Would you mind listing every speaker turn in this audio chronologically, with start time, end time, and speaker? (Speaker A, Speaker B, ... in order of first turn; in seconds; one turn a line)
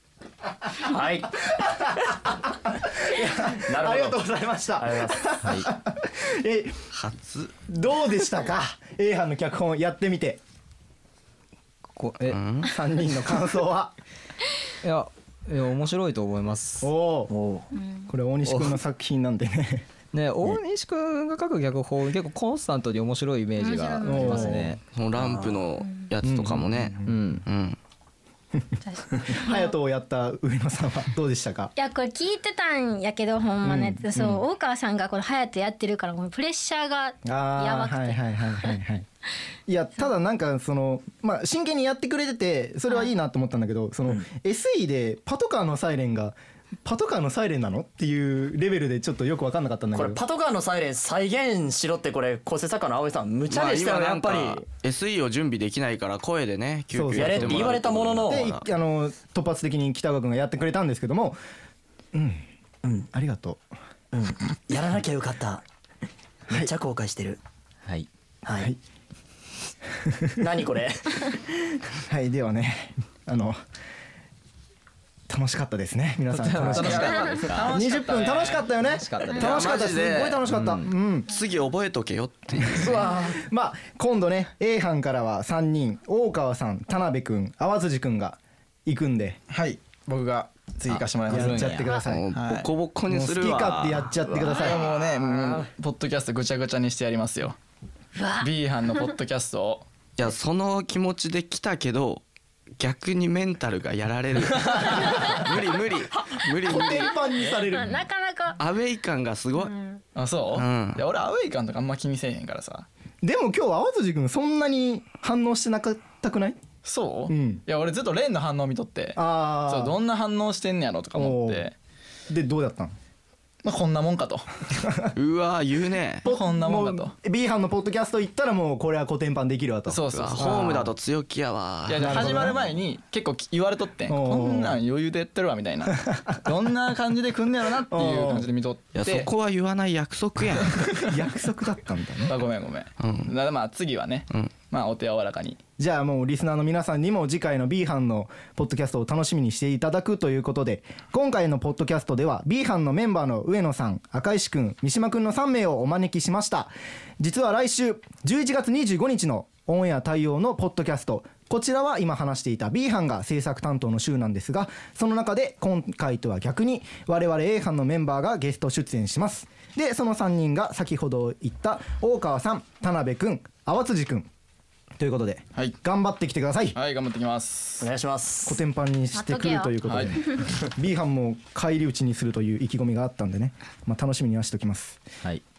Speaker A: 0.8-1.6
Speaker B: 1.6-6.8
Speaker A: 3.5-4.2
Speaker A: 4.8-5.4
Speaker C: 6.9-7.6
Speaker B: 7.7-10.4
Speaker D: 12.0-12.4
Speaker C: 12.3-12.7
Speaker B: 12.6-13.9
Speaker D: 14.8-16.9
Speaker B: 16.8-17.3
Speaker A: 17.3-17.7
Speaker B: 18.1-19.9
Speaker D: 18.5-18.8
Speaker D: 20.1-24.8
Speaker E: 23.6-24.6
Speaker B: 24.0-24.7
Speaker C: 24.9-27.8
Speaker B: 26.2-27.1
Speaker D: 27.1-27.4
Speaker B: 28.7-31.7
Speaker E: 28.9-29.7
Speaker E: 31.8-38.7
Speaker B: 33.6-34.4
Speaker B: 37.3-39.1
Speaker B: 39.7-50.2
Speaker A: 49.9-54.6
Speaker C: 53.5-58.6
Speaker B: 56.9-61.4
Speaker A: 57.2-58.5
Speaker B: 62.1-62.5
Speaker B: 63.1-63.6
Speaker A: 64.1-65.6
Speaker A: 66.5-67.4
Speaker A: 68.4-68.7
Speaker B: 70.0-70.3
Speaker A: 70.4-71.5
Speaker B: 72.1-73.6
Speaker B: 75.3-81.3
Speaker D: 76.3-77.8
Speaker F: 76.7-78.7
Speaker D: 78.8-79.9
Speaker C: 79.3-80.5
Speaker C: 81.3-83.1
Speaker B: 82.8-89.4
Speaker A: 82.8-83.4
Speaker F: 89.5-92.7
Speaker D: 90.9-91.9
Speaker B: 91.3-92.3
Speaker C: 92.0-94.3
Speaker B: 93.1-94.9
Speaker F: 94.5-97.6
Speaker E: 98.2-99.0
Speaker F: 98.4-99.9
Speaker C: 100.2-102.2
Speaker C: 102.8-107.1
Speaker F: 104.5-105.0
Speaker B: 106.6-108.1
Speaker E: 106.7-108.6
Speaker C: 108.6-109.8
Speaker E: 109.7-110.0
Speaker F: 110.1-112.9
Speaker C: 110.5-111.1
Speaker B: 113.2-116.6
Speaker F: 116.8-121.8
Speaker B: 117.3-117.6
Speaker B: 119.1-120.0
Speaker B: 121.1-121.7
Speaker B: 122.3-123.0
Speaker F: 123.6-124.5
Speaker C: 125.1-126.3
Speaker F: 126.2-127.1
Speaker B: 126.3-130.9
Speaker F: 129.9-130.6
Speaker C: 130.1-132.6
Speaker F: 131.9-139.3
Speaker B: 132.0-132.7
Speaker B: 134.1-134.8
Speaker B: 136.1-136.5
Speaker B: 137.9-138.5
Speaker C: 138.9-141.0
Speaker B: 141.0-142.3
Speaker F: 142.2-145.6
Speaker C: 143.0-143.3
Speaker B: 145.8-174.3
Speaker B: 175.0-176.8
Speaker F: 176.8-177.9
Speaker A: 177.8-178.6
Speaker B: 178.5-185.0
Speaker E: 179.1-180.5
Speaker F: 179.8-180.2